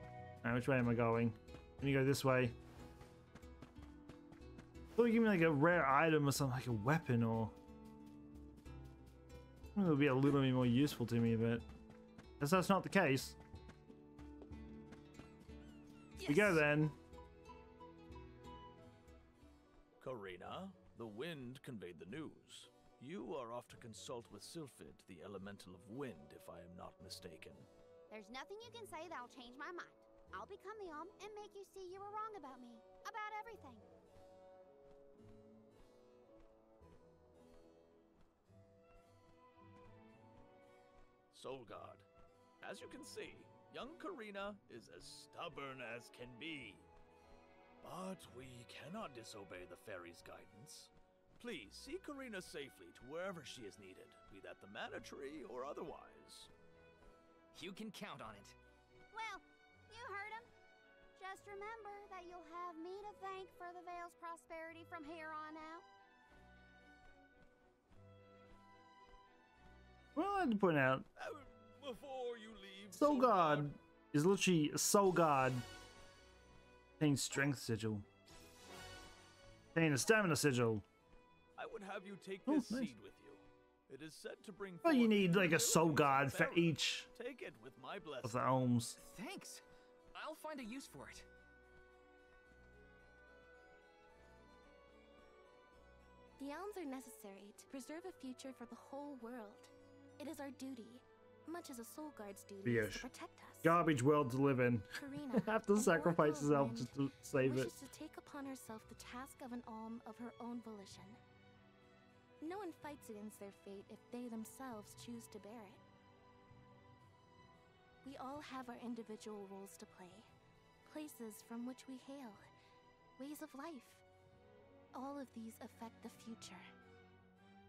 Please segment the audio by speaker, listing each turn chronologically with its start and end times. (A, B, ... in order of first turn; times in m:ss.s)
0:00.4-0:02.5 A
0:05.0-0:07.6 A
0:09.8-0:11.6 A
0:12.4-0:13.4 A
0:16.2-0:16.6 B
0:16.3-0:17.0 A
0:20.0-0:27.7 C
0:28.1-0:33.9 D
0:41.3-0:42.0 C
0:42.6-0:46.9 C
0:47.8-0:56.5 C
0:57.5-0:58.6 E
0:59.1-1:00.5 D
1:01.2-1:05.8 D
1:10.2-1:11.1 A
1:11.2-1:13.7 C
1:12.9-1:15.6 A
1:17.0-1:18.1 A
1:19.8-1:20.8 A
1:21.6-1:28.4 C
1:22.5-1:22.9 A
1:24.8-1:27.1 A
1:28.2-1:29.0 A
1:29.0-1:31.3 E
1:36.4-1:43.8 B
1:42.6-1:43.1 A
1:43.6-1:47.7 A
1:45.0-1:51.2 B
1:52.4-1:55.8 B
1:58.0-2:00.3 B
2:00.8-2:02.4 B
2:03.2-2:04.0 B
2:04.9-2:06.7 B